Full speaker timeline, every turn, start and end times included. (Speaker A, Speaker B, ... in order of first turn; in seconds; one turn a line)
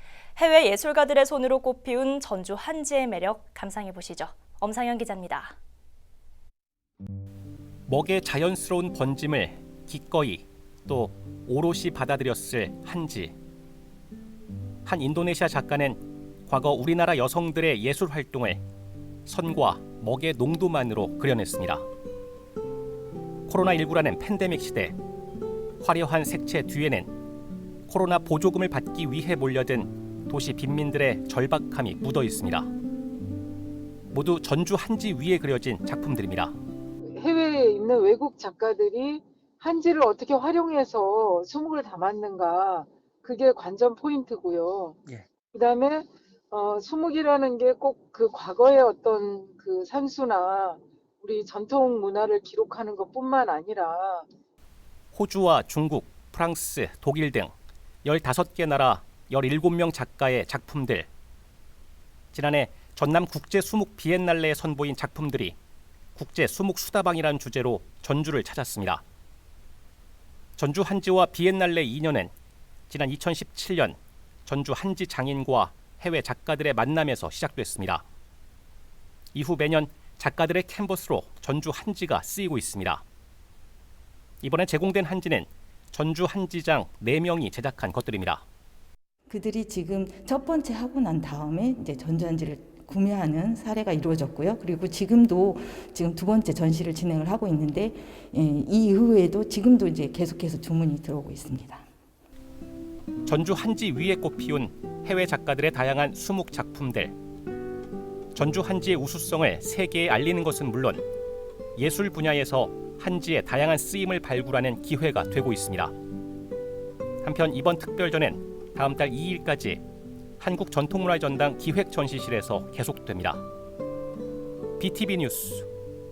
Speaker A: 0.4-5.6
Speaker B: 7.9-13.3
Speaker B: 14.8-18.6
Speaker B: 19.2-21.9
Speaker B: 23.5-25.0
Speaker B: 25.8-27.1
Speaker B: 27.9-32.7
Speaker B: 34.1-36.5
Speaker C: 37.1-45.0
Speaker C: 45.5-54.3
Speaker B: 55.1-61.1
Speaker B: 62.3-65.5
Speaker B: 66.2-69.0
Speaker B: 70.6-72.3
Speaker B: 72.9-78.0
Speaker B: 79.3-83.0
Speaker B: 84.4-88.4
Speaker D: 89.3-101.8
Speaker B: 103.2-107.2
Speaker B: 108.3-111.0
Speaker B: 111.8-115.9
Speaker B: 117.2-119.8
Speaker B: 120.4-123.4
Speaker B: 124.8-125.7